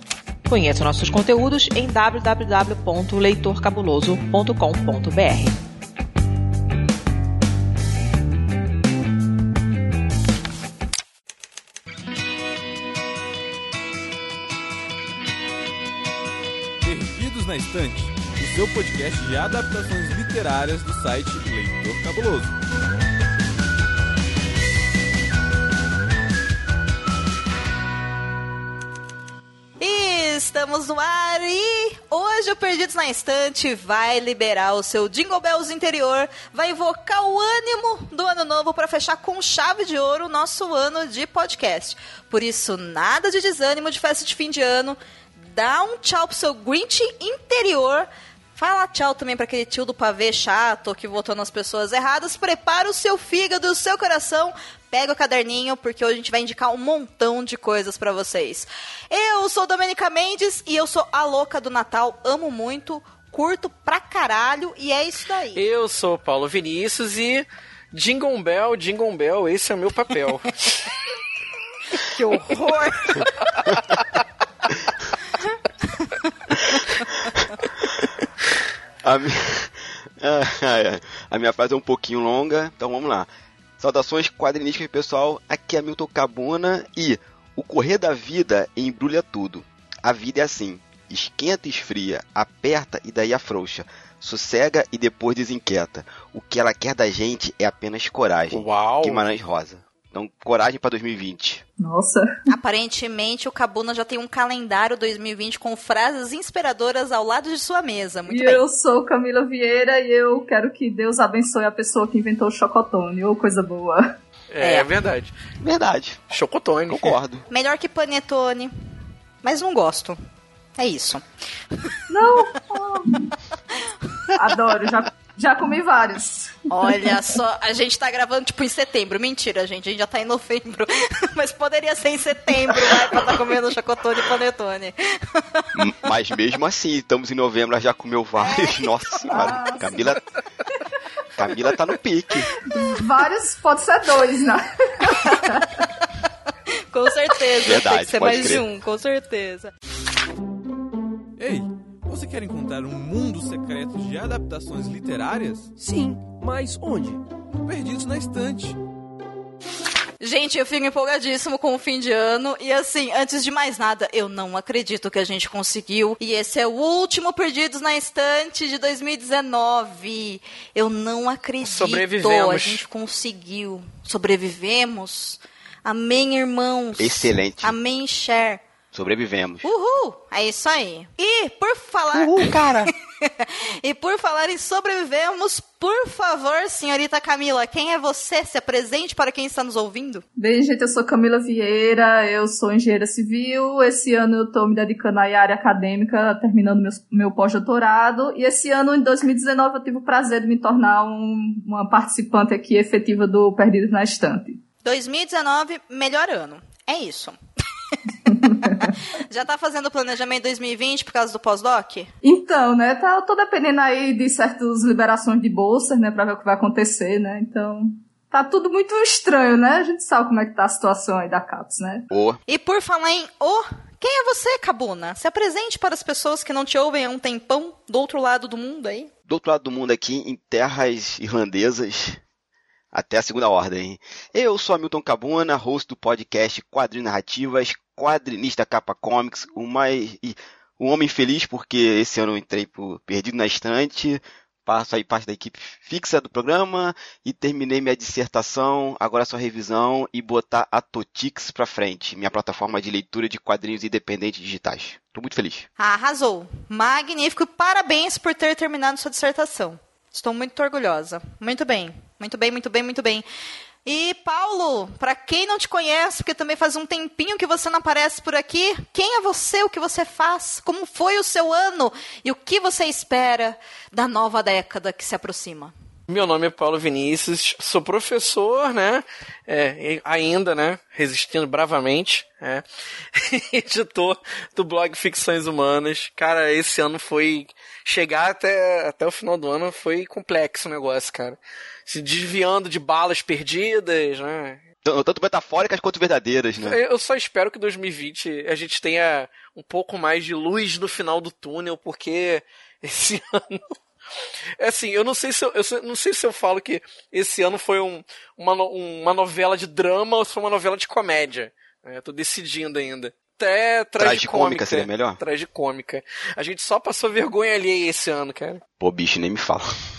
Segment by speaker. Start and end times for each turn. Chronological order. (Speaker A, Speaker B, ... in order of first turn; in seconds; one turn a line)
Speaker A: 0.4-5.6
Speaker B: 16.8-22.5
Speaker C: 29.8-65.6
Speaker D: 65.5-70.8
Speaker C: 72.0-73.5
Speaker E: 79.0-83.3
Speaker E: 83.8-101.6
Speaker D: 98.5-99.2
Speaker F: 101.8-102.3
Speaker C: 102.5-108.6
Speaker F: 108.3-114.1
Speaker D: 114.5-115.3
Speaker C: 114.6-114.9
Speaker E: 115.6-116.2
Speaker D: 116.3-117.2
Speaker E: 116.9-117.5
Speaker C: 117.5-118.7
Speaker C: 119.4-120.2
Speaker C: 120.8-121.2
Speaker F: 122.1-123.3
Speaker C: 123.7-124.3
Speaker F: 124.3-126.9
Speaker C: 126.7-135.7
Speaker E: 135.7-140.2
Speaker C: 138.4-139.6
Speaker F: 139.3-140.1
Speaker E: 141.3-142.5
Speaker F: 142.6-145.8
Speaker C: 145.1-146.1
Speaker C: 146.9-149.7
Speaker E: 147.6-148.6
Speaker B: 151.4-158.8
Speaker C: 160.2-178.6
Speaker D: 171.6-172.8
Speaker E: 177.0-177.7
Speaker E: 178.9-179.7
Speaker C: 179.6-190.2
Speaker E: 182.1-182.8
Speaker F: 190.4-204.6
Speaker C: 204.8-207.3
Speaker F: 208.3-208.9
Speaker C: 208.3-212.1
Speaker F: 212.2-222.1
Speaker E: 222.1-222.4
Speaker C: 222.5-229.1
Speaker E: 229.3-232.2
Speaker E: 232.9-255.7
Speaker C: 255.8-263.2
Speaker C: 263.8-275.7
Speaker D: 276.1-294.6
Speaker E: 294.8-296.8
Speaker D: 296.6-303.7
Speaker D: 304.6-318.6
Speaker E: 314.0-315.2
Speaker E: 318.8-319.7